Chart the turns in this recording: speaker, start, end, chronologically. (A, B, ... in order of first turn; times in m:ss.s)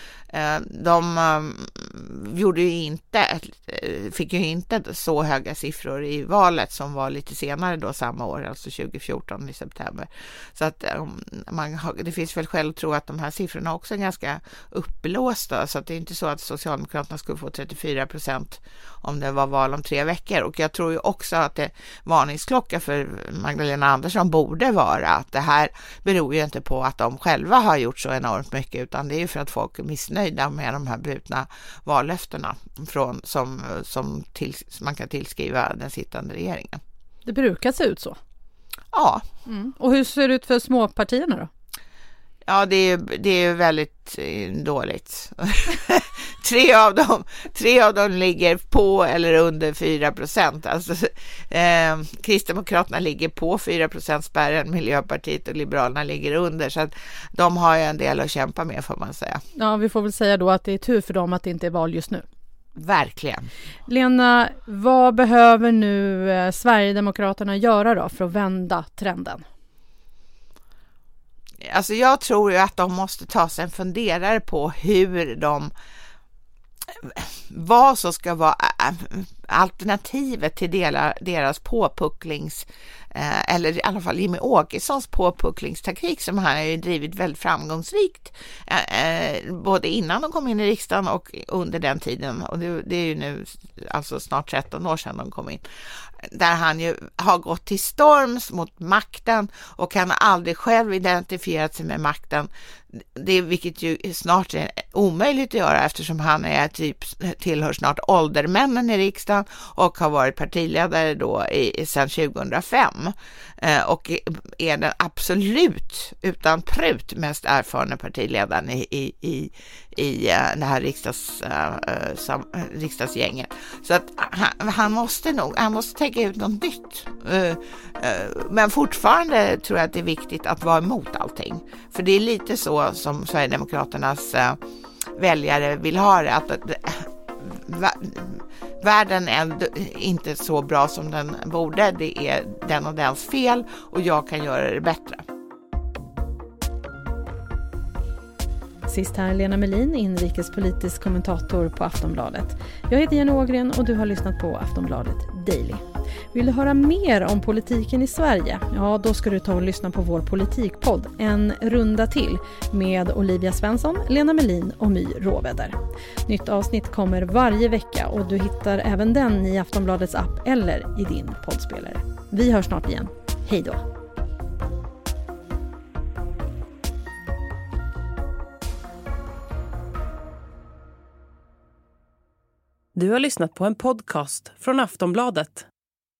0:00.3-0:36.8 A
0:37.2-0:38.2 B
0:38.9-0:39.2 A
0:39.5-0:41.5 B
0:42.5-0:59.4 A
0:59.6-1:02.2 B
1:02.8-1:03.5 A
1:03.9-1:09.4 B
1:11.6-1:15.7 A
1:17.0-1:35.6 A
1:36.3-2:14.6 A
2:15.2-2:25.2 A
2:28.9-2:53.8 B
3:03.0-3:05.7 C